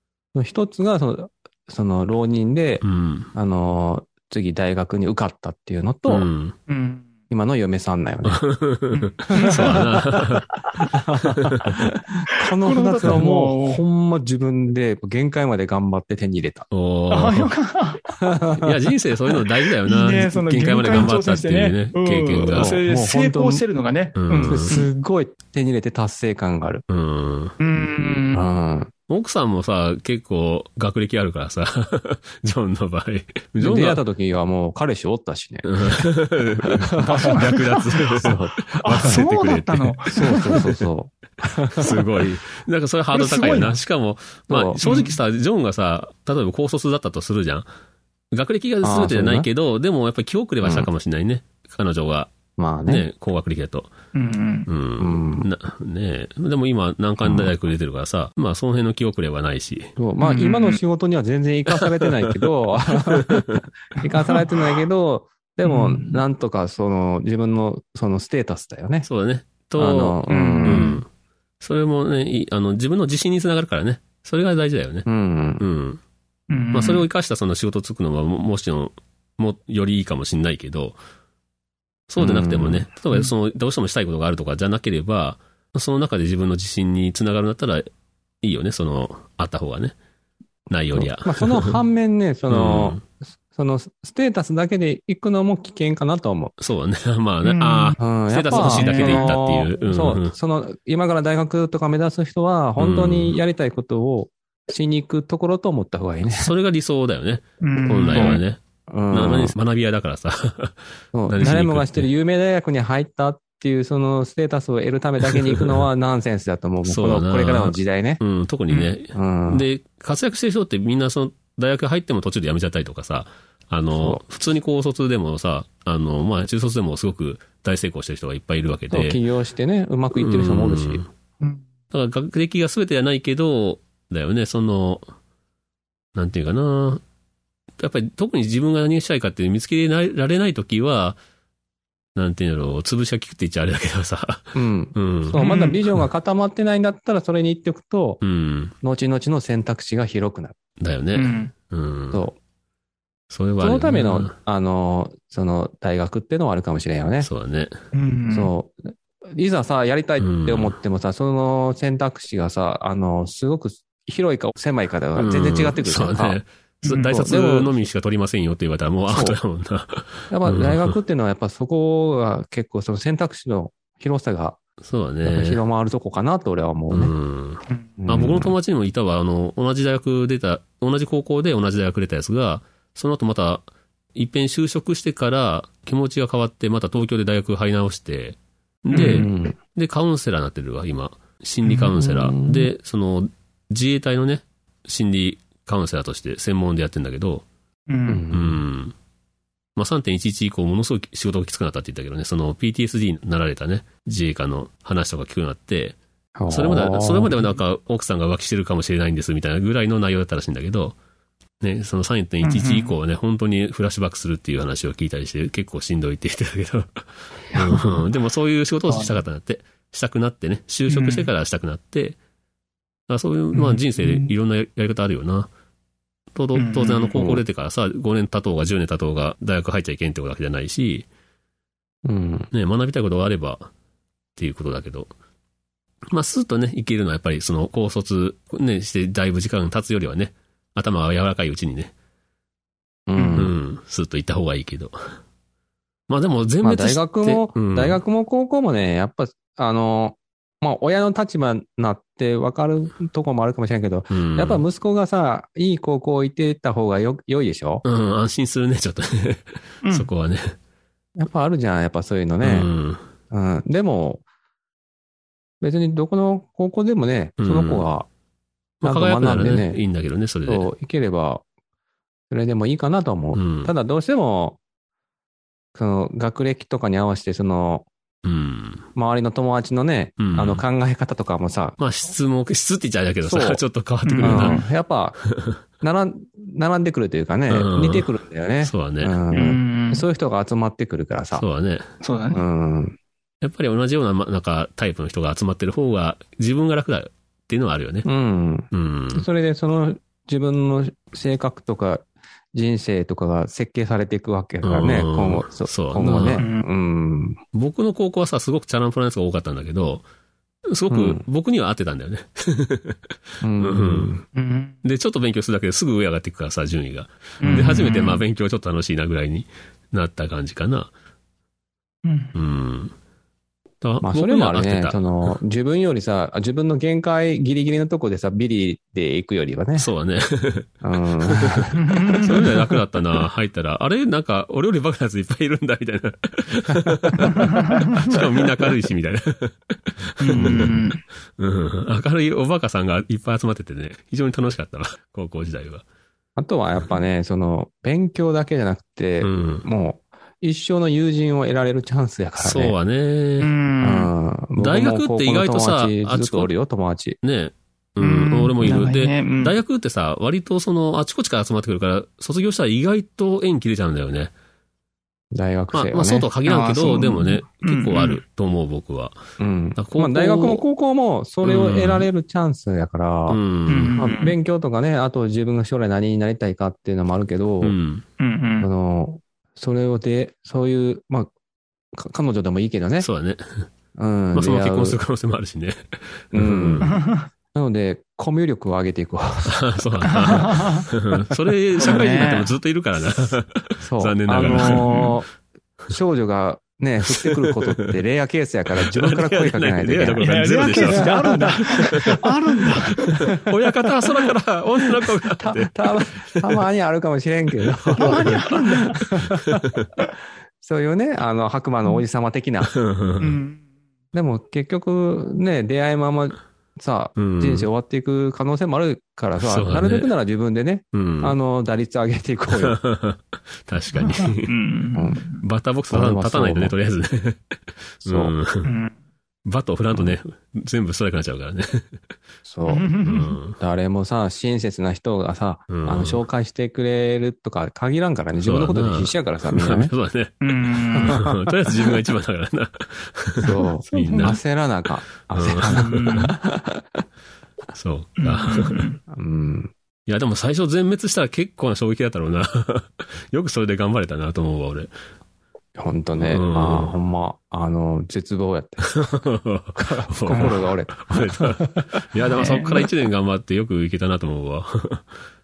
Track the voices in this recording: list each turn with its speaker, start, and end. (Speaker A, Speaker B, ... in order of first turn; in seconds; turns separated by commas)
Speaker A: 0.3-6.3, Speaker B: 2.8-3.3, Speaker B: 6.1-6.6, Speaker C: 6.7-7.1, Speaker A: 7.3-8.5, Speaker B: 8.2-10.5, Speaker C: 8.9-9.9, Speaker A: 9.3-10.2, Speaker A: 10.9-16.7, Speaker B: 11.2-11.9, Speaker C: 12.6-13.8, Speaker B: 16.7-17.5, Speaker C: 17.1-18.1, Speaker A: 18.2-18.7, Speaker B: 18.6-22.8, Speaker C: 19.8-24.9, Speaker A: 22.5-23.6, Speaker B: 24.1-24.7, Speaker A: 24.4-26.8, Speaker B: 26.9-27.6, Speaker C: 27.6-28.4, Speaker A: 27.8-28.9, Speaker B: 29.1-34.0, Speaker A: 33.6-36.0, Speaker B: 35.6-40.7, Speaker A: 36.6-37.6, Speaker C: 37.1-37.6, Speaker A: 38.1-39.2, Speaker C: 38.8-40.6, Speaker A: 40.1-42.1, Speaker B: 41.7-47.7, Speaker C: 43.1-43.8, Speaker A: 44.5-44.8, Speaker C: 44.8-45.2, Speaker B: 48.3-52.3, Speaker A: 48.8-49.5, Speaker A: 50.6-50.9, Speaker A: 52.6-53.1, Speaker B: 52.9-53.9, Speaker C: 54.1-54.7, Speaker B: 54.7-60.0, Speaker A: 55.0-55.5, Speaker A: 57.2-57.5, Speaker A: 60.0-69.1, Speaker C: 60.2-60.8, Speaker B: 61.7-62.4, Speaker B: 63.0-63.6, Speaker C: 64.0-64.5, Speaker C: 65.6-66.2, Speaker B: 69.0-71.1, Speaker A: 69.8-71.0, Speaker C: 70.3-71.0, Speaker B: 71.6-75.1, Speaker A: 75.0-75.6, Speaker B: 75.6-76.0, Speaker C: 76.5-77.0, Speaker B: 76.7-81.0, Speaker B: 82.1-87.9, Speaker A: 82.2-82.8, Speaker B: 88.4-89.9, Speaker B: 90.7-91.8, Speaker A: 90.9-96.5, Speaker B: 92.5-93.0, Speaker B: 96.6-100.3, Speaker C: 97.4-99.4, Speaker A: 98.0-106.5, Speaker B: 102.8-103.3, Speaker B: 106.2-108.6, Speaker C: 107.6-108.4, Speaker A: 108.1-109.5, Speaker B: 109.1-112.1, Speaker A: 111.1-118.2, Speaker B: 115.3-115.8, Speaker B: 116.8-129.2, Speaker A: 119.1-119.7, Speaker A: 123.9-124.2, Speaker A: 128.9-131.0, Speaker B: 130.1-131.1, Speaker B: 131.9-135.1, Speaker B: 136.1-137.0, Speaker B: 137.8-141.2, Speaker B: 142.1-145.5, Speaker A: 144.5-148.2, Speaker C: 145.4-145.8, Speaker B: 148.2-148.7, Speaker A: 148.8-150.6, Speaker B: 150.8-152.2, Speaker C: 151.1-151.5, Speaker B: 153.3-154.3, Speaker A: 153.6-157.3, Speaker B: 157.2-157.7, Speaker C: 157.9-158.5, Speaker A: 158.3-166.4, Speaker B: 160.2-160.7, Speaker B: 165.2-170.9, Speaker C: 166.8-167.1, Speaker A: 167.1-167.8, Speaker A: 169.1-169.4, Speaker A: 170.3-174.6, Speaker B: 174.8-175.6, Speaker A: 175.2-177.1, Speaker B: 176.9-197.4, Speaker A: 178.0-178.5, Speaker C: 188.9-189.3, Speaker A: 189.0-189.6, Speaker C: 191.6-191.9, Speaker A: 191.9-192.7, Speaker C: 197.9-198.2, Speaker A: 198.1-198.6, Speaker B: 198.3-198.9, Speaker B: 199.8-206.0, Speaker A: 206.4-207.4, Speaker B: 206.5-210.9, Speaker B: 211.6-222.2, Speaker C: 212.4-212.9, Speaker C: 218.9-219.2, Speaker C: 220.9-221.3, Speaker B: 223.1-225.5, Speaker C: 223.5-224.3, Speaker B: 226.3-231.1, Speaker C: 226.5-227.2, Speaker A: 227.1-227.4, Speaker A: 232.0-232.5, Speaker B: 232.5-233.7, Speaker B: 234.3-235.1, Speaker B: 236.1-241.9, Speaker A: 243.1-243.5, Speaker C: 243.2-243.5, Speaker B: 243.4-245.2, Speaker B: 246.1-248.0, Speaker A: 246.6-257.8, Speaker B: 254.1-254.6, Speaker B: 257.8-260.6, Speaker C: 259.8-260.1, Speaker A: 261.2-262.7, Speaker B: 262.4-263.0, Speaker A: 263.3-264.2, Speaker A: 265.6-268.1, Speaker B: 267.4-267.9, Speaker B: 268.8-270.7, Speaker A: 268.8-269.8, Speaker A: 270.4-271.4, Speaker A: 272.3-274.6, Speaker B: 273.3-273.7, Speaker A: 275.7-277.9, Speaker B: 278.2-278.9, Speaker A: 278.9-281.8, Speaker B: 280.2-280.6, Speaker B: 281.8-284.6, Speaker A: 283.2-283.6, Speaker C: 284.1-284.6, Speaker A: 284.2-285.1, Speaker A: 285.8-291.4, Speaker B: 287.5-288.1, Speaker B: 288.6-289.1, Speaker C: 289.3-290.1, Speaker B: 291.3-291.9, Speaker C: 292.0-292.4, Speaker A: 292.3-293.0, Speaker B: 293.4-298.1, Speaker A: 298.0-307.4, Speaker B: 298.7-299.2, Speaker B: 304.6-306.4, Speaker C: 306.4-306.7, Speaker B: 307.5-310.0, Speaker B: 310.7-314.1, Speaker A: 310.9-311.2, Speaker A: 313.4-314.2, Speaker C: 314.3-314.8, Speaker B: 314.8-320.9, Speaker C: 317.4-318.2, Speaker A: 317.4-317.9, Speaker C: 322.0-322.3, Speaker B: 322.3-322.9, Speaker B: 323.8-325.3, Speaker A: 324.0-329.9, Speaker B: 329.8-340.8, Speaker A: 330.8-331.8, Speaker C: 331.8-332.5, Speaker A: 336.9-337.3, Speaker C: 337.2-338.2, Speaker C: 340.2-341.0, Speaker A: 340.4-340.7, Speaker B: 341.4-345.8, Speaker A: 346.4-352.7, Speaker B: 349.2-349.7, Speaker B: 352.4-353.5, Speaker C: 353.4-354.1, Speaker A: 353.8-357.2, Speaker B: 354.6-356.5, Speaker B: 357.2-364.3, Speaker C: 358.0-359.6, Speaker A: 365.3-366.3, Speaker B: 365.7-369.2, Speaker C: 366.4-368.2, Speaker A: 369.4-377.8, Speaker B: 369.8-370.6, Speaker B: 371.4-372.1, Speaker B: 373.3-374.0, Speaker C: 373.7-374.4, Speaker B: 377.6-378.0, Speaker C: 378.2-378.7, Speaker A: 378.6-381.3, Speaker A: 381.9-383.1, Speaker B: 383.0-383.7, Speaker A: 383.9-385.0, Speaker B: 384.3-387.0, Speaker A: 386.3-387.0, Speaker C: 386.8-387.2, Speaker A: 387.5-390.6, Speaker B: 389.5-395.1, Speaker C: 390.1-390.9, Speaker C: 391.8-392.5, Speaker A: 393.8-395.3, Speaker C: 394.6-395.1, Speaker A: 395.9-402.2, Speaker B: 397.0-398.0, Speaker B: 398.8-402.3, Speaker C: 400.2-403.2, Speaker B: 402.8-406.6, Speaker A: 405.3-409.8, Speaker B: 407.8-409.9, Speaker C: 408.0-409.0, Speaker A: 410.6-412.7, Speaker B: 412.7-413.3, Speaker C: 413.2-413.6, Speaker A: 414.1-422.8, Speaker B: 417.2-417.7, Speaker B: 419.4-420.1, Speaker B: 420.9-421.4, Speaker B: 422.5-424.5, Speaker C: 424.0-425.4, Speaker A: 424.9-425.2, Speaker B: 425.4-428.7, Speaker A: 425.9-426.7, Speaker A: 428.0-428.3, Speaker C: 428.6-428.9, Speaker B: 429.4-431.9, Speaker A: 432.4-432.9, Speaker C: 432.6-433.4, Speaker B: 433.0-433.6, Speaker A: 433.6-439.9, Speaker B: 435.7-436.2, Speaker B: 438.4-444.4, Speaker C: 440.4-441.2, Speaker A: 441.0-441.3, Speaker A: 443.4-447.0, Speaker C: 443.9-444.4, Speaker B: 445.3-446.1, Speaker C: 445.6-446.4, Speaker B: 447.7-448.9, Speaker C: 448.2-449.0, Speaker A: 449.1-449.7, Speaker B: 450.1-454.9, Speaker A: 455.8-459.1, Speaker B: 456.1-456.9, Speaker B: 458.8-465.1, Speaker A: 459.8-461.9, Speaker C: 460.3-460.6, Speaker C: 462.4-462.9